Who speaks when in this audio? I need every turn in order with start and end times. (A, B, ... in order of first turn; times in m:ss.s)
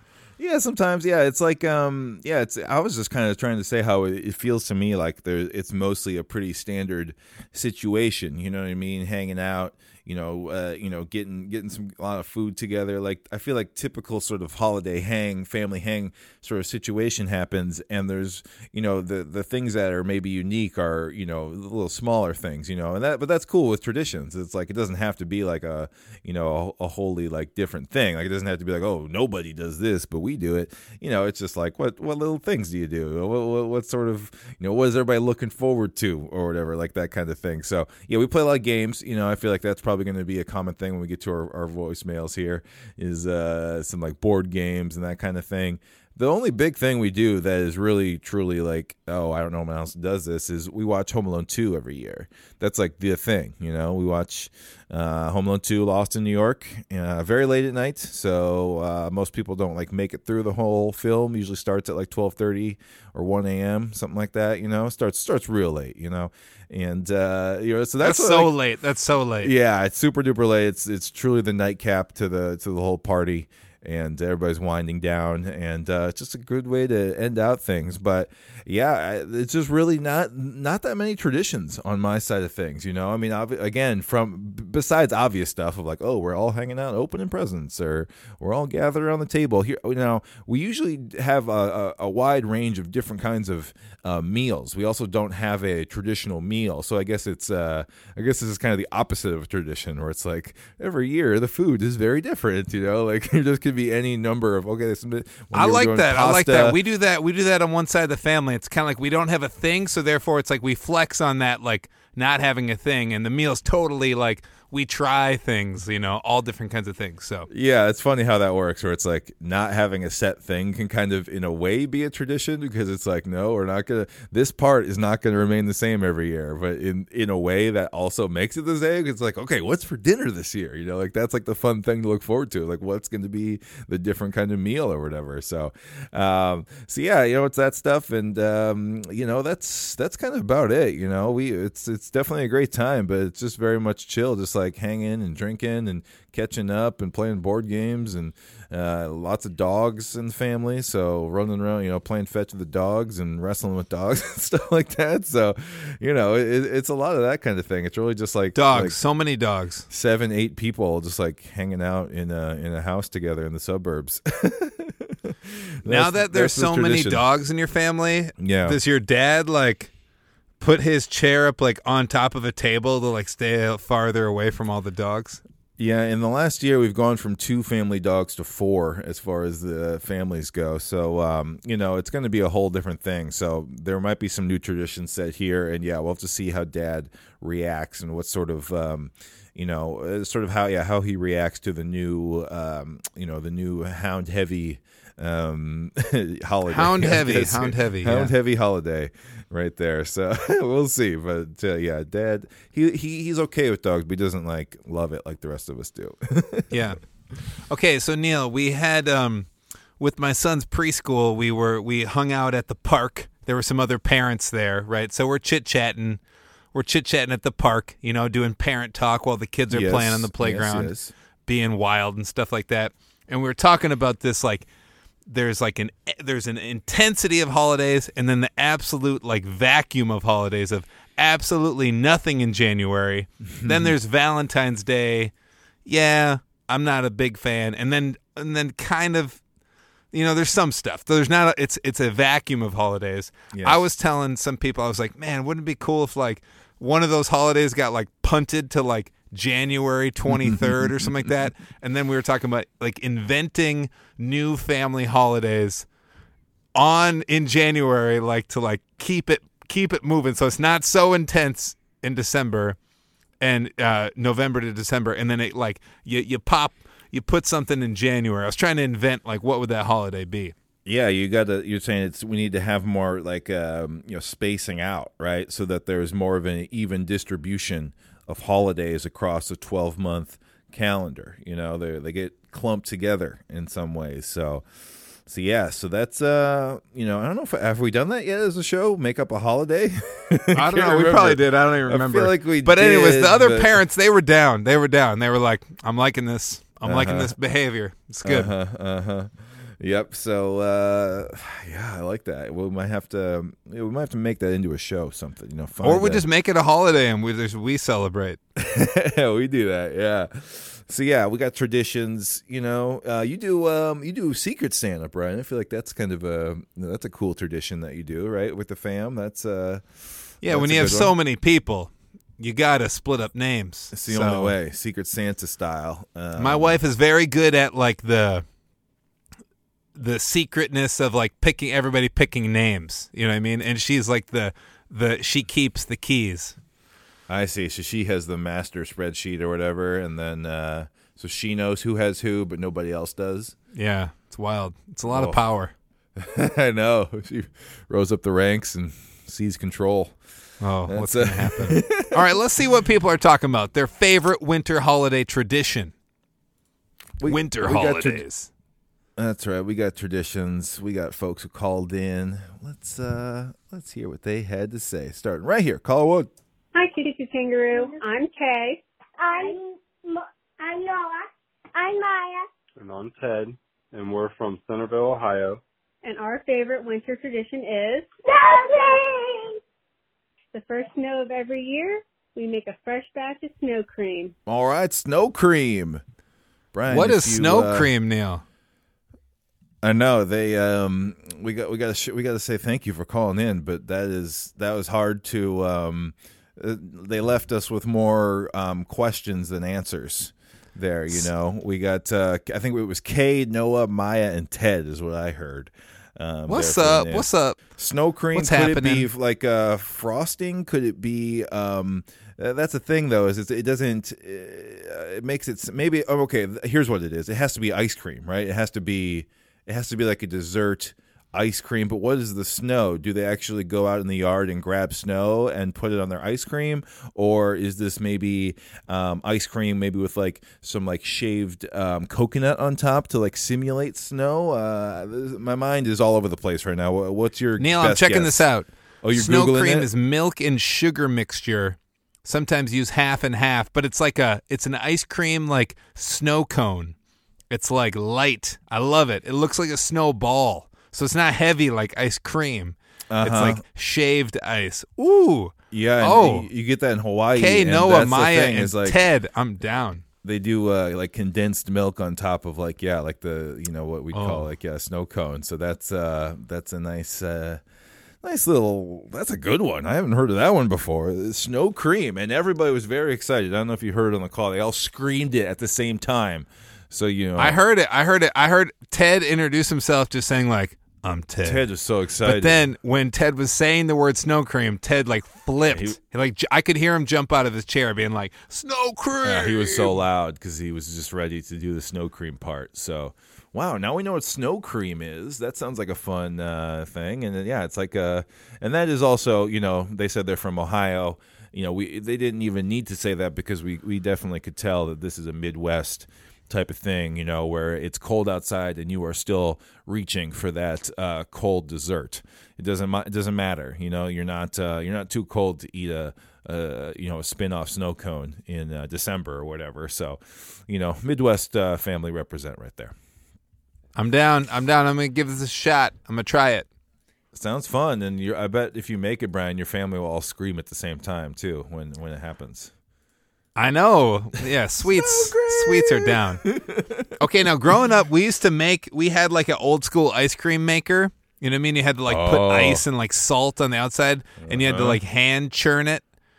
0:00.4-1:08.5 A
1:08.0-1:09.5 B
1:09.4-1:46.8 A
1:45.5-1:57.5 B
1:57.5-2:39.0 A
2:38.6-2:39.9 B
2:39.9-2:47.2 A
2:45.9-2:49.9 B
2:48.4-2:48.8 A
2:50.6-2:55.4 B
2:55.8-3:26.9 A
3:16.7-3:18.3 B
3:26.7-3:27.0 B
3:27.7-3:36.2 B
3:36.7-3:40.9 B
3:39.7-3:41.1 A
3:41.5-3:44.7 B
3:45.3-3:55.3 B
3:53.5-3:53.9 A
3:55.9-3:59.4 B
4:00.1-4:15.9 B
4:03.5-4:03.8 A
4:10.3-4:11.3 A
4:16.8-4:22.8 B
4:23.4-4:30.5 B
4:30.8-4:44.7 A
4:45.3-4:53.8 A
4:50.6-4:58.5 B
4:56.8-4:57.4 A
4:58.2-5:06.2 A
5:05.8-5:08.4 B
5:08.6-5:21.2 A
5:20.4-5:24.6 B
5:23.9-5:26.8 A
5:26.4-5:28.4 B
5:30.0-5:36.6 B
5:37.3-5:43.6 A
5:43.7-5:45.7 B
5:45.1-5:45.4 A
5:46.2-5:50.2 A
5:50.6-5:55.9 B
5:50.9-5:52.2 A
5:57.2-5:58.2 A
5:57.3-5:58.5 B
5:59.2-6:06.3 A
6:06.7-6:08.8 C
6:09.2-6:12.5 D
6:12.8-6:15.6 E
6:16.0-6:18.1 C
6:18.3-6:19.6 D
6:20.5-6:24.4 C
6:24.5-6:26.0 A
6:26.7-6:27.9 A
6:26.9-6:28.4 B
6:29.8-7:18.5 A
6:46.5-6:47.6 B
6:48.3-6:49.1 B
7:17.6-7:27.0 B
7:19.0-7:19.9 A
7:27.5-7:36.5 B
7:33.1-7:33.6 A
7:35.7-7:39.0 A
7:37.4-7:40.0 B
7:40.2-7:47.6 A
7:44.1-7:44.5 B
7:48.2-7:57.6 A
7:57.4-8:01.6 B
8:01.4-8:02.6 A
8:02.2-8:10.0 B
8:05.7-8:06.0 A
8:09.2-8:43.0 A
8:44.0-8:46.7 B
8:47.3-8:52.7 A
8:53.6-8:56.4 B
8:54.8-8:57.2 A
8:57.2-9:06.0 B
9:02.1-9:02.8 A
9:04.4-9:05.0 A